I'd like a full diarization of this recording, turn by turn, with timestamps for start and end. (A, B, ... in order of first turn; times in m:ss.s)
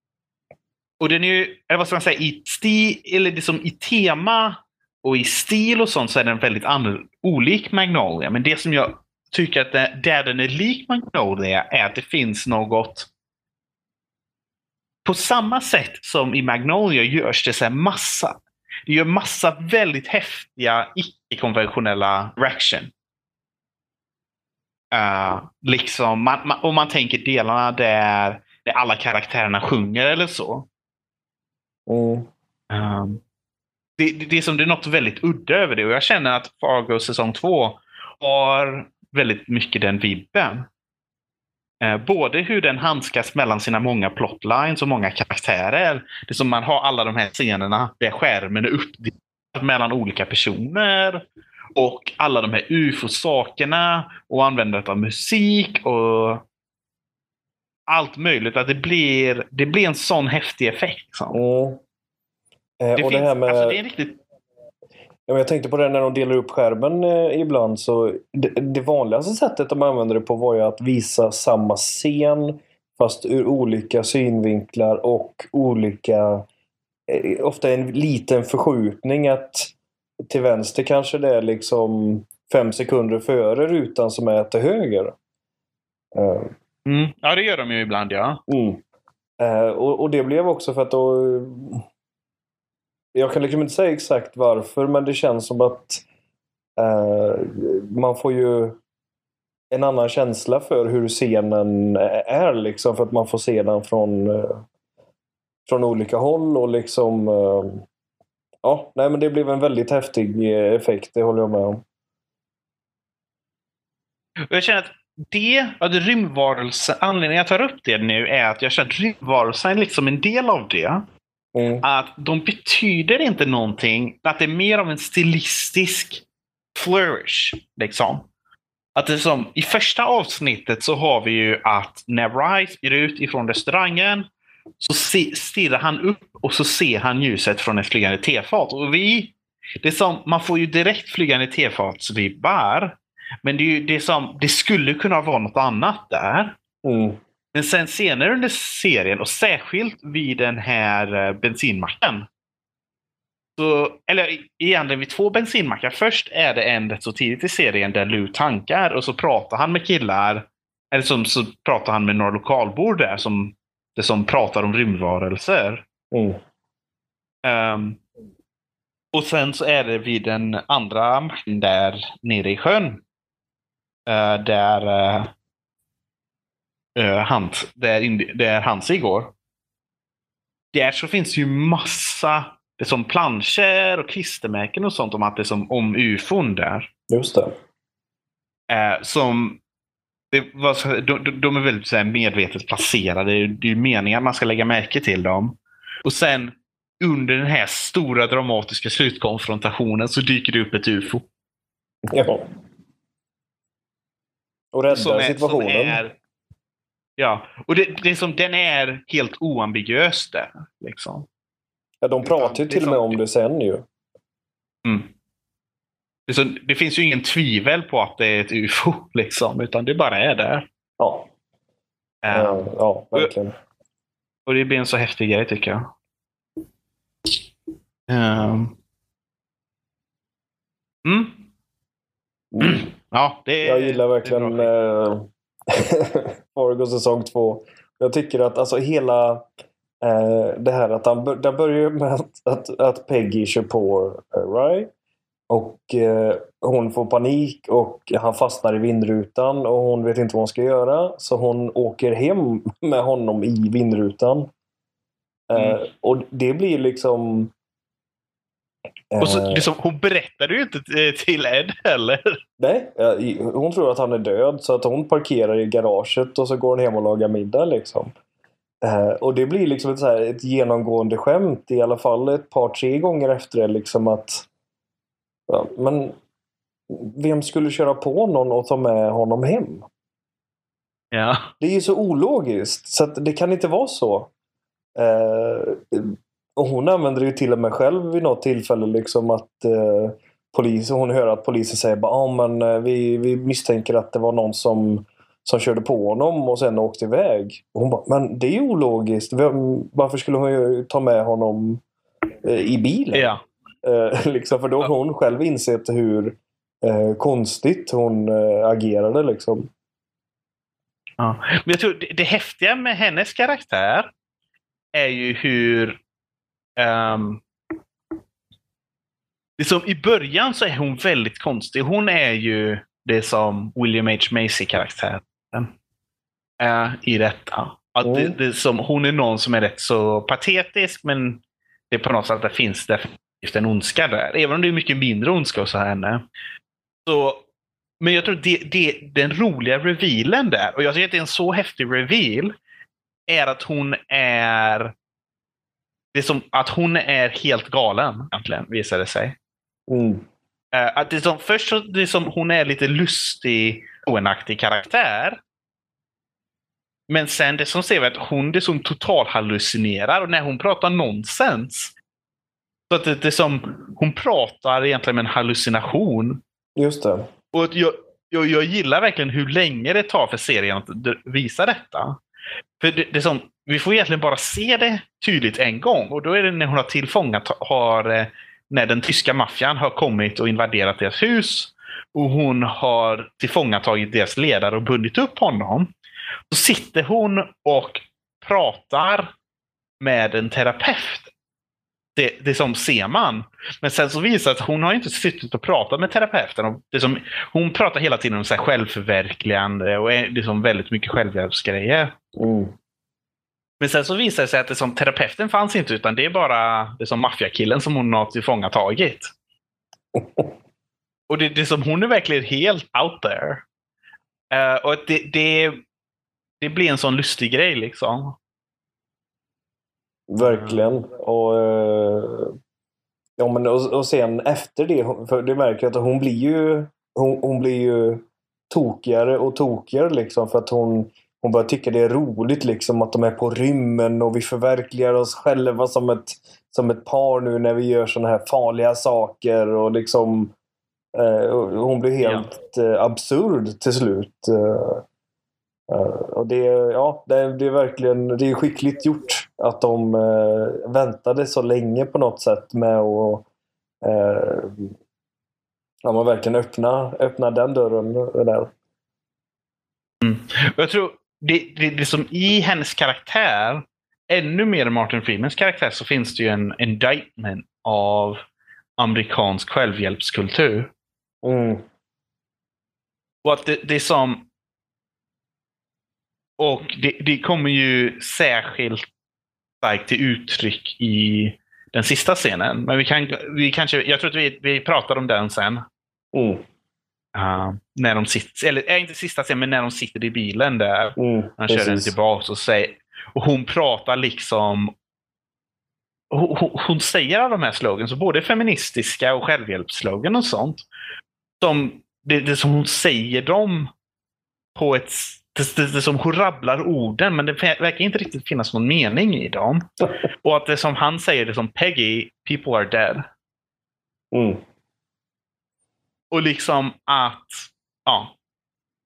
0:01.0-0:13.1 A
0:15.0-0:22.9 A
0:24.9-0:30.7 A
0:31.9-0:32.3 B
0:32.7-0:33.2 A
0:34.0-0:40.7 A
0:41.8-0:51.2 A
0:51.8-0:56.4 A
0:57.9-1:01.4 A
1:01.3-1:01.8 B
1:02.8-1:03.8 B
1:03.0-1:04.2 A
1:05.3-1:16.5 B
1:17.1-1:19.7 B
1:20.3-1:25.2 B
1:26.1-1:26.5 B
1:26.8-1:28.4 A
1:28.5-1:28.8 B
1:29.4-1:31.8 B
1:33.1-1:36.0 B
1:36.8-1:38.8 B
1:39.7-1:44.6 B
1:45.7-1:47.9 B
1:48.6-1:51.8 B
1:54.5-2:01.0 A
2:01.6-2:01.8 B
2:01.8-2:08.3 A
2:09.0-2:14.3 A
2:14.8-2:26.6 A
2:26.8-2:27.2 B
2:27.5-2:32.3 A
2:33.6-2:45.8 A
2:46.1-2:46.4 B
2:47.4-2:48.0 A
2:49.1-2:53.0 A
2:54.1-2:55.3 A
2:57.0-2:59.3 A
3:00.7-3:06.9 A
3:07.1-3:07.5 B
3:08.7-3:09.6 A
3:10.3-3:21.3 A
3:22.1-3:22.4 B
3:24.7-3:26.0 B
3:24.9-3:26.1 A
3:27.2-3:31.3 A
3:32.0-3:33.9 B
3:32.2-3:33.2 A
3:34.8-3:35.1 A
3:36.3-3:40.7 A
3:41.0-3:41.3 B
3:42.2-3:43.3 A
3:42.3-3:43.5 B
3:44.5-3:45.9 A
3:48.1-3:48.8 A
3:51.0-3:51.4 A
3:52.5-3:52.9 B
3:52.6-3:54.7 A
3:53.6-3:59.5 B
4:00.0-4:04.9 B
4:05.5-4:14.5 B
4:15.5-4:17.5 B
4:15.6-4:15.8 A
4:19.1-4:19.6 B
4:19.2-4:22.4 A
4:22.6-4:28.1 B
4:28.8-4:34.5 B
4:35.5-4:36.2 B
4:36.9-4:39.9 B
4:41.1-4:41.5 A
4:41.6-4:44.3 B
4:45.0-5:01.8 B
5:02.4-5:03.3 B
5:03.1-5:03.4 A
5:03.8-5:09.7 B
5:11.2-5:14.1 A
5:14.9-5:16.0 A
5:16.8-5:17.4 A
5:19.6-5:25.7 A
5:26.6-5:36.2 A
5:28.0-5:28.4 B
5:37.1-5:37.4 A
5:38.0-5:42.5 A
5:43.3-5:44.9 A
5:46.1-5:49.4 A
5:49.9-5:50.2 B
5:50.7-5:55.4 A
5:57.1-6:02.0 A
6:02.9-6:06.4 A
6:06.8-6:07.3 B
6:07.5-6:12.2 A
6:12.8-6:25.9 A
6:26.5-6:29.3 A
6:30.0-6:31.3 A
6:32.2-6:42.2 A
6:42.4-6:42.7 B
6:43.8-6:49.3 A
6:50.2-6:50.5 B
6:51.3-6:53.6 A
6:54.5-6:55.8 A
6:56.6-6:58.4 A
7:00.3-7:02.6 B
7:00.4-7:00.8 A
7:03.4-7:20.5 B
7:21.1-7:25.0 B
7:22.2-7:22.5 A
7:25.9-7:33.5 B
7:34.0-7:34.9 B
7:36.0-7:38.7 B
7:40.2-7:48.4 A
7:49.0-7:50.9 A
7:51.4-7:51.8 B
7:53.4-7:54.5 A
7:56.6-7:59.1 A
7:59.8-8:05.8 A
8:06.3-8:06.6 B
8:07.4-8:14.9 A
8:11.2-8:12.2 B
8:16.3-8:20.8 A
8:21.6-8:23.9 A
8:24.8-8:29.9 A
8:30.4-8:33.3 A
8:34.3-8:34.6 B
8:36.3-8:38.3 A